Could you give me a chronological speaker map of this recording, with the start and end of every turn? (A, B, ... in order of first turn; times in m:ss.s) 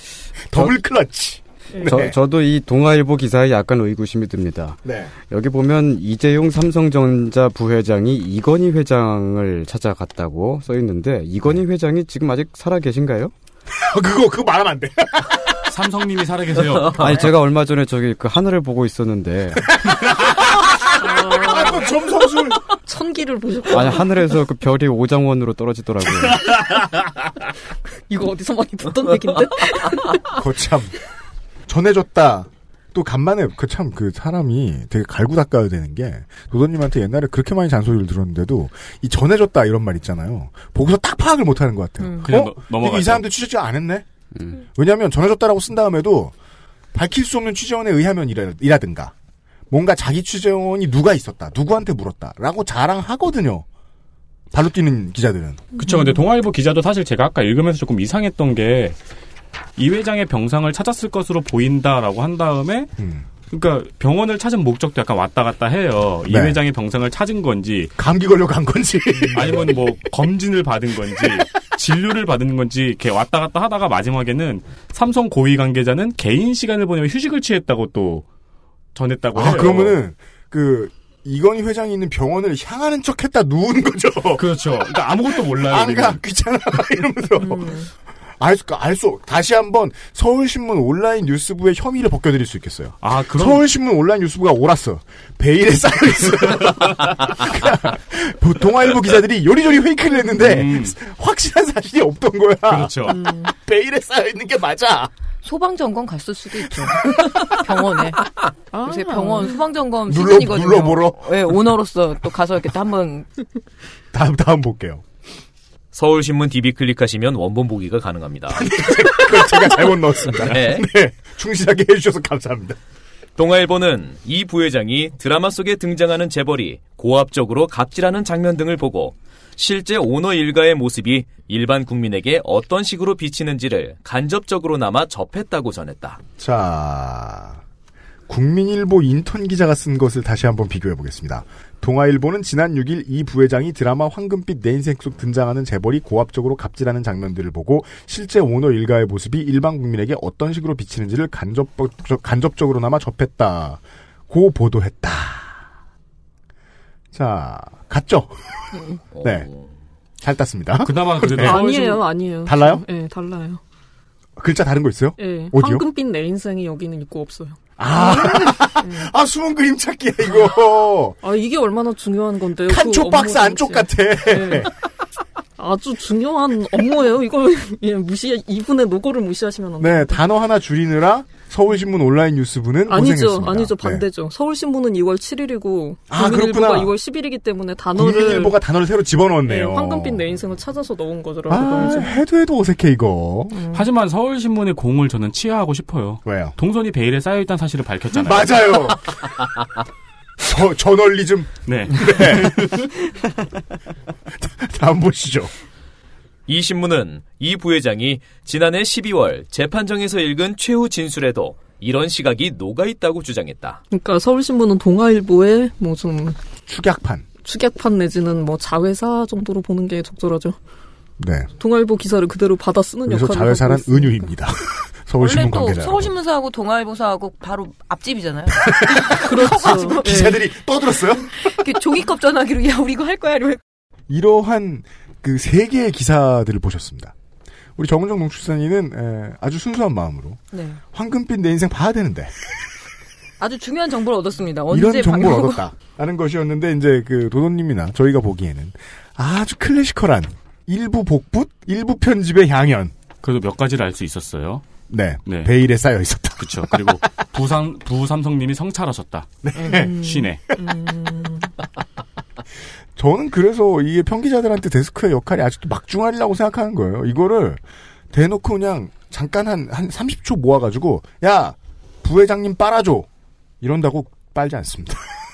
0:00.5-0:02.2 A
0:01.7-0:02.1 B
0:01.8-0:13.3 C
0:04.8-0:05.1 A
0:13.8-0:15.4 A
0:15.7-0:17.2 D
0:16.9-0:19.7 C
0:19.9-0:20.4 A
0:21.0-0:22.0 B
0:21.0-0:22.6 A
0:22.8-0:24.2 B
0:23.7-0:26.4 C
0:28.1-0:30.3 B
0:30.3-0:30.9 A
0:31.7-0:44.1 A
0:42.0-0:42.3 E
0:42.2-0:43.2 D
0:44.7-0:46.3 A
0:46.9-0:49.1 A
0:49.7-0:53.6 A
0:54.5-0:55.7 A
0:55.8-0:59.0 D
0:59.8-1:02.9 D
1:03.0-1:03.2 A
1:03.5-1:08.0 D
1:06.3-1:06.6 A
1:08.0-1:09.8 A
1:09.3-1:18.3 D
1:19.0-1:20.0 D
1:19.3-1:24.4 A
1:24.4-1:26.2 D
1:25.5-1:27.8 A
1:27.4-1:27.9 B
1:28.4-1:45.1 A
1:33.0-1:33.7 D
1:40.4-1:41.0 D
1:42.7-1:43.2 D
1:43.1-1:43.5 B
1:45.4-1:48.2 E
1:48.7-1:49.5 B
1:48.8-1:53.3 E
1:50.1-1:51.6 A
1:54.1-1:55.0 A
1:55.9-1:58.7 F
1:58.5-2:02.8 A
2:00.4-2:00.9 F
2:03.4-2:16.2 F
2:16.4-2:17.6 A
2:18.3-2:35.6 A
2:37.1-2:39.5 A
2:39.2-2:39.6 F
2:40.2-2:41.7 A
2:40.8-2:42.0 D
2:41.4-2:43.6 B
2:42.4-2:42.8 A
2:44.4-2:45.8 A
2:45.2-2:47.6 B
2:47.8-2:51.2 A
2:48.1-2:49.1 B
2:51.2-2:54.7 B
2:52.7-2:54.7 A
2:55.6-3:00.2 B
2:59.8-3:04.1 A
3:02.9-3:08.6 B
3:06.1-3:06.9 A
3:08.0-3:10.2 A
3:09.4-3:12.2 B
3:11.5-3:13.6 A
3:13.7-3:18.7 D
3:16.2-3:16.6 A
3:18.1-3:19.1 A
3:20.4-3:22.9 A
3:21.7-3:22.9 D
3:24.4-3:25.5 A
3:26.5-3:33.8 F
3:33.9-3:36.4 B
3:36.6-3:37.3 A
3:37.4-3:40.6 B
3:41.2-3:41.5 A
3:41.6-3:44.3 B
3:43.1-3:46.1 A
3:45.2-3:50.0 E
3:48.7-3:51.3 A
3:49.3-3:50.4 B
3:51.4-3:53.6 E
3:54.1-3:57.1 A
3:57.8-4:00.4 A
4:00.5-4:00.8 E
4:00.9-4:02.3 A
4:03.4-4:05.6 E
4:04.7-4:12.9 A
4:13.2-4:14.6 D
4:14.9-4:17.0 A
4:15.3-4:15.5 D
4:16.4-4:20.4 D
4:19.4-4:20.0 A
4:19.7-4:21.5 B
4:23.0-4:27.6 A
4:28.1-4:33.1 A
4:33.6-4:35.1 A